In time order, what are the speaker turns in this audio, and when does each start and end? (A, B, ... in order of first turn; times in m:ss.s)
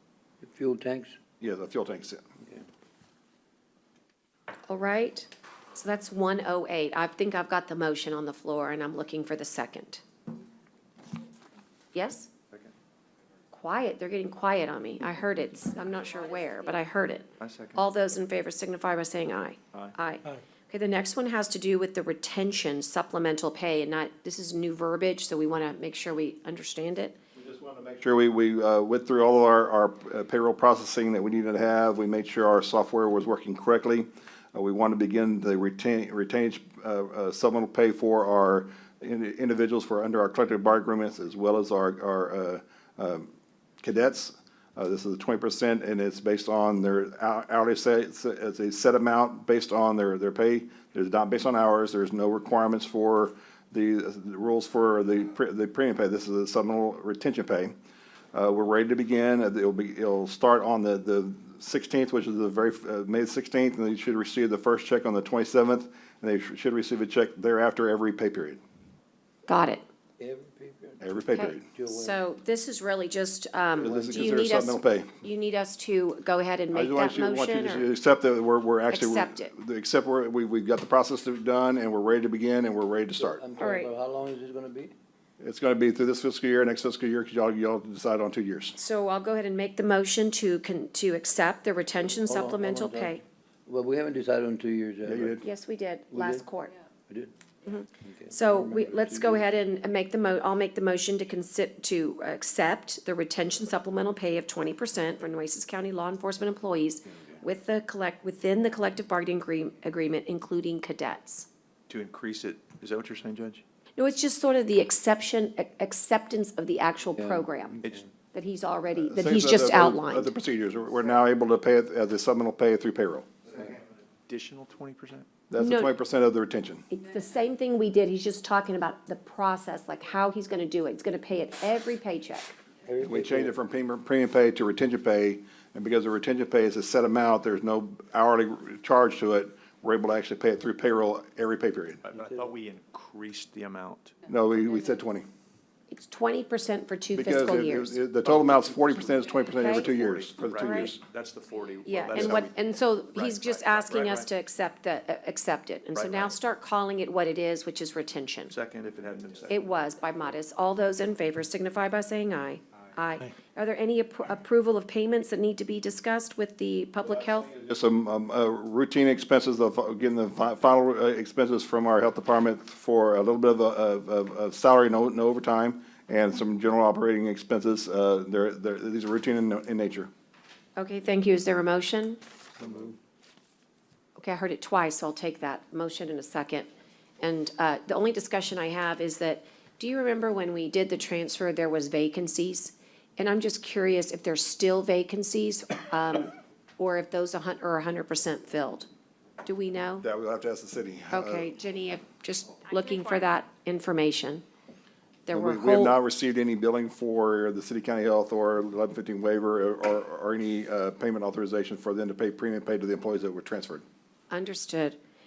0:00.4-0:01.1 A
0:01.4-0:02.2 B
0:04.7-0:10.0 C
0:11.9-0:12.3 C
0:13.5-0:27.2 C
0:17.4-0:17.9 D
0:27.4-0:43.3 B
0:43.8-0:57.7 B
0:58.3-1:08.6 B
1:09.5-1:09.8 C
1:10.2-1:12.2 A
1:11.0-1:11.7 B
1:11.3-1:17.9 C
1:13.8-1:15.1 B
1:13.8-1:14.2 A
1:16.7-1:23.4 B
1:18.9-1:19.5 C
1:23.2-1:24.9 A
1:23.6-1:23.9 C
1:25.4-1:28.8 B
1:28.8-1:33.2 C
1:32.2-1:35.4 A
1:35.0-1:35.4 B
1:35.4-1:36.7 C
1:36.1-1:36.5 A
1:37.1-1:37.3 A
1:37.7-1:51.5 C
1:38.0-1:39.5 A
1:51.9-1:53.6 D
1:54.0-1:57.8 C
1:57.2-1:57.5 A
1:57.8-1:58.1 D
1:58.3-2:00.5 C
1:59.0-2:03.2 B
2:04.3-2:05.2 D
2:05.5-2:06.8 B
2:05.6-2:05.9 C
2:06.9-2:12.5 C
2:12.9-2:13.5 A
2:13.0-2:22.0 B
2:22.0-2:24.1 D
2:24.3-2:25.2 B
2:25.9-2:28.0 C
2:27.1-2:31.0 B
2:28.2-2:34.3 D
2:29.5-2:29.9 C
2:30.6-2:30.9 C
2:31.8-2:38.5 C
2:35.9-2:36.4 D
2:38.5-2:39.7 D
2:39.5-2:47.5 C
2:47.5-3:00.1 B
3:00.8-3:02.2 C
3:04.2-3:06.7 C
3:07.2-3:18.9 C
3:19.4-3:20.0 C
3:20.0-3:21.5 B
3:21.1-3:24.4 C
3:25.3-3:25.9 C
3:25.3-3:33.8 B
3:34.3-3:35.0 C